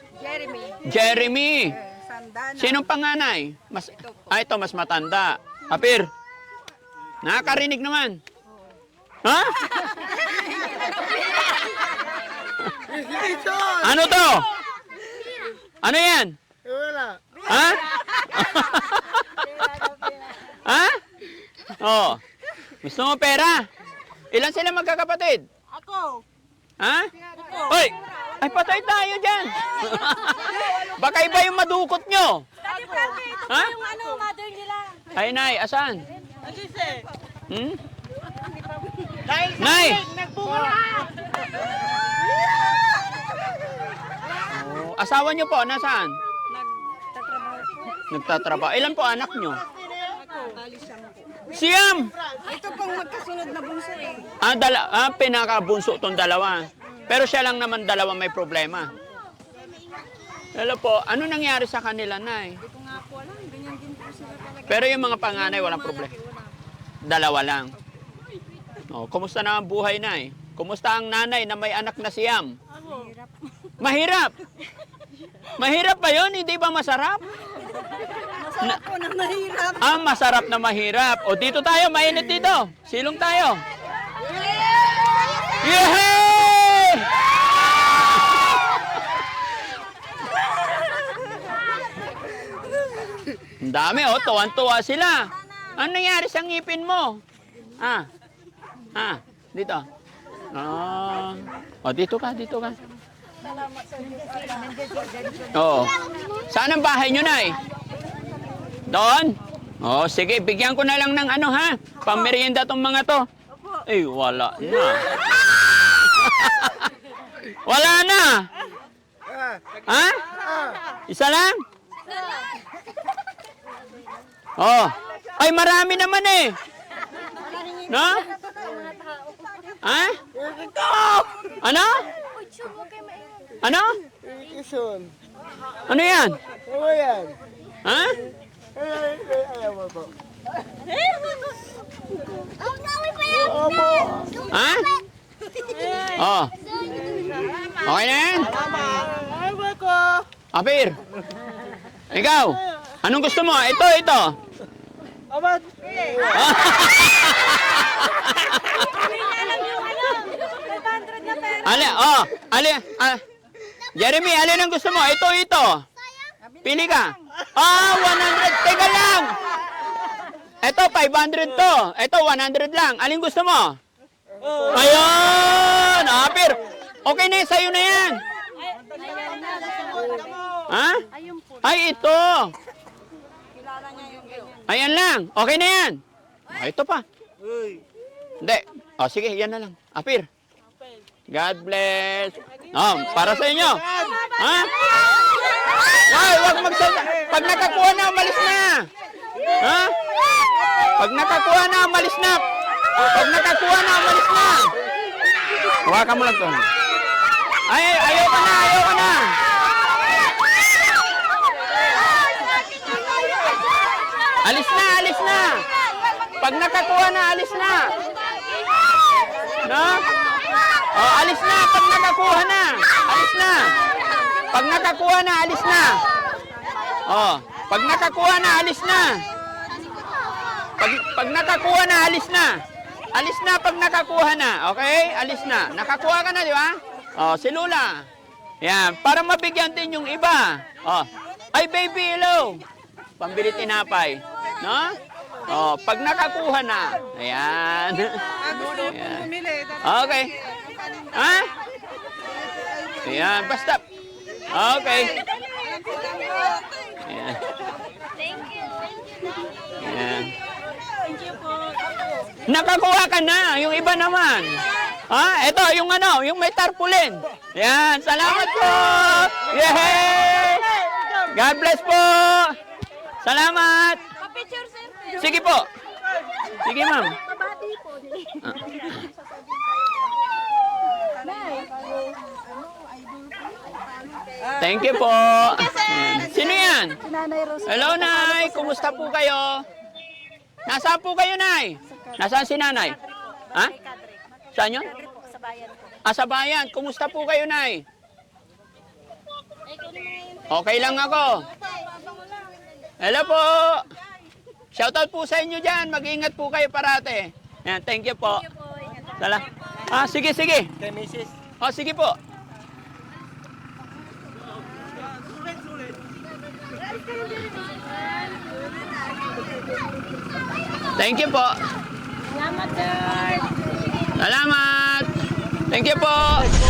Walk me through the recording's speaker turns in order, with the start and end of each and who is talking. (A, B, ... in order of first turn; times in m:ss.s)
0:00.2-0:00.8 A
0:00.8-0:01.8 B
0:01.9-0:02.6 A
0:02.5-0:06.1 B
0:07.2-0:08.2 B
0:09.2-0:09.9 B
0:12.9-0:13.8 C
0:13.8-0:14.5 B
0:15.8-0:16.4 B
0:16.6-0:17.2 C
0:17.4-0:19.4 B
0:19.6-0:20.2 A
0:20.5-0:21.0 B
0:21.7-0:23.7 B
0:24.3-0:25.4 B
0:26.8-0:32.5 B
0:32.6-0:35.0 A
0:33.5-0:33.8 B
0:35.1-0:36.1 B
0:36.5-0:36.8 C
0:37.5-0:37.8 B
0:39.2-0:41.1 C
0:39.6-0:40.0 B
0:44.5-0:46.2 B
0:47.3-0:47.7 A
0:48.1-0:49.6 B
0:50.1-0:50.4 C
0:50.5-0:51.1 A
0:51.5-0:52.1 B
0:52.5-0:54.3 A
0:54.4-0:58.9 B
1:00.5-1:02.6 B
1:02.9-1:04.6 A
1:04.7-1:06.2 B
1:07.0-1:07.8 B
1:08.9-1:12.6 B
1:13.8-1:14.3 B
1:15.6-1:17.2 B
1:18.2-1:19.8 A
1:19.8-1:23.6 B
1:25.6-1:28.4 B
1:33.6-1:37.2 B
1:37.8-1:38.1 B
1:38.9-1:39.9 B
1:40.5-1:42.8 B
1:43.5-1:45.0 A
1:45.5-1:47.6 B
1:48.9-1:53.3 B
1:53.8-1:56.9 B
1:57.4-1:58.5 B
1:59.8-2:00.2 B
2:00.5-2:00.8 C
2:01.1-2:01.6 B
2:04.6-2:06.6 B
2:07.4-2:07.8 A
2:07.9-2:08.3 B
2:08.4-2:09.5 A
2:09.8-2:10.2 B
2:10.4-2:11.4 C
2:11.5-2:12.1 B
2:12.4-2:13.2 A
2:13.6-2:14.0 B
2:14.2-2:15.1 C
2:15.9-2:16.4 B
2:16.7-2:17.4 C
2:17.8-2:18.2 B
2:18.8-2:20.1 C
2:23.3-2:24.4 C
2:24.5-2:24.9 B
2:26.0-2:26.5 B
2:27.8-2:28.6 B
2:28.5-2:30.3 C
2:30.5-2:31.0 B
2:32.1-2:34.4 B
2:35.3-2:36.4 C
2:36.2-2:38.9 B
2:39.0-2:41.6 A
2:41.6-2:43.2 B
2:44.0-2:45.9 B
2:46.6-2:49.4 B
2:50.6-2:53.8 B
2:54.4-2:54.7 C
2:54.7-2:58.2 B
2:59.0-3:00.3 A
2:59.0-3:00.4 C
3:00.7-3:01.1 B
3:01.6-3:02.5 B
3:03.6-3:04.6 A
3:04.7-3:07.0 B
3:07.5-3:07.8 C
3:08.4-3:10.3 B
3:11.3-3:15.0 B
3:13.2-3:14.2 C
3:15.8-3:18.9 B
3:19.6-3:20.0 B
3:20.9-3:24.7 B
3:25.7-3:26.7 B
3:27.7-3:29.4 B
3:34.4-3:35.6 B
3:36.4-3:38.0 B
3:39.6-3:40.1 B
3:40.9-3:43.7 B
3:44.5-3:46.0 B
3:47.0-3:49.2 B
3:50.8-3:58.0 B
3:58.6-4:02.6 B
4:03.2-4:10.4 B
4:09.4-4:09.7 A
4:11.1-4:11.5 B
4:13.0-4:13.8 B
4:14.5-4:15.3 B
4:15.5-4:16.9 A
4:17.0-4:17.5 B
4:18.2-4:19.4 A
4:19.8-4:20.4 B
4:21.0-4:21.9 A
4:22.5-4:30.7 B
4:31.3-4:32.6 B
4:33.2-4:34.0 B
4:34.2-4:35.1 A
4:35.2-4:35.7 B
4:36.5-4:37.2 B
4:37.2-4:39.1 A
4:41.1-4:43.6 A
4:44.6-4:47.0 B
4:47.0-4:47.7 A
4:47.6-4:49.6 B
4:50.7-4:53.0 B
4:54.5-4:55.0 B
4:55.2-4:55.7 A
4:56.0-4:57.8 B
5:00.5-5:01.5 B
5:03.0-5:03.9 B
5:04.7-5:08.5 B
5:09.2-5:10.7 B
5:10.8-5:11.3 C
5:11.6-5:12.2 B
5:21.0-5:21.6 B
5:22.3-5:23.6 A
5:24.2-5:26.5 B